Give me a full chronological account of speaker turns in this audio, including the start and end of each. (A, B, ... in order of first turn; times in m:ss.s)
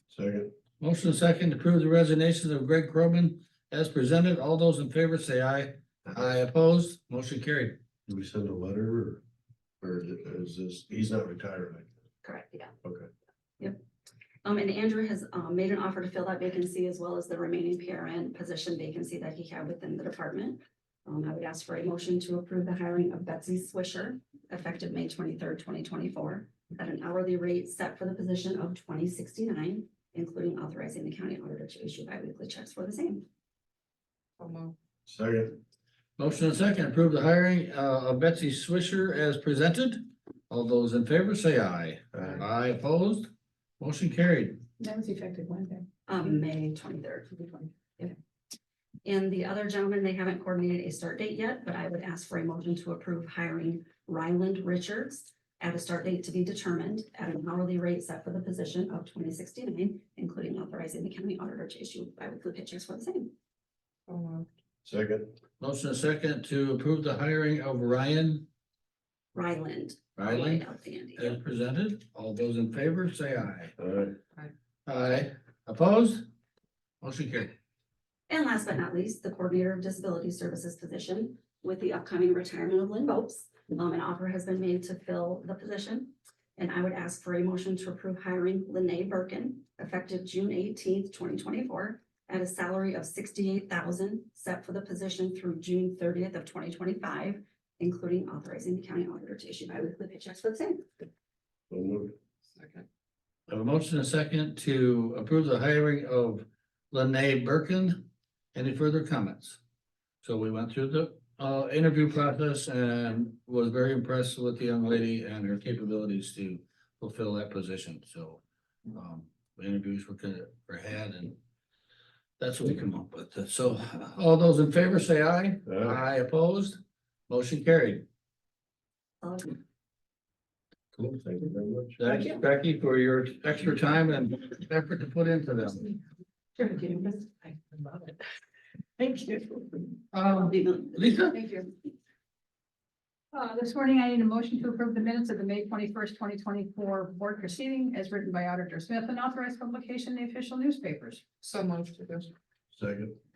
0:00.1-0:00.5 A
0:00.8-0:07.8 B
0:08.1-0:09.2 A
0:09.8-0:11.9 A
0:12.2-0:12.7 C
0:12.8-0:13.1 A
0:14.4-0:33.3 C
0:34.4-0:34.8 D
0:35.1-0:35.6 A
0:36.2-0:44.6 B
0:42.1-0:42.4 A
0:44.8-0:45.9 E
0:46.1-0:48.2 C
0:49.0-1:03.3 C
1:04.1-1:04.5 D
1:04.8-1:05.3 A
1:05.6-1:08.5 B
1:09.4-1:11.4 C
1:10.2-1:10.6 B
1:11.2-1:13.7 B
1:13.8-1:14.2 A
1:14.9-1:16.2 B
1:17.0-1:17.5 B
1:18.3-1:40.9 C
1:41.7-1:42.2 A
1:42.5-1:42.8 D
1:43.5-1:49.6 B
1:50.2-2:01.4 B
2:02.4-2:08.1 B
2:05.7-2:06.0 A
2:09.2-2:09.6 C
2:11.0-2:12.0 A
2:12.0-2:15.9 B
2:16.6-2:17.3 C
2:19.0-2:19.6 E
2:20.1-2:21.4 B
2:20.5-2:20.8 C
2:21.3-2:21.7 E
2:23.3-2:31.3 E
2:31.4-2:32.3 D
2:32.7-2:33.2 A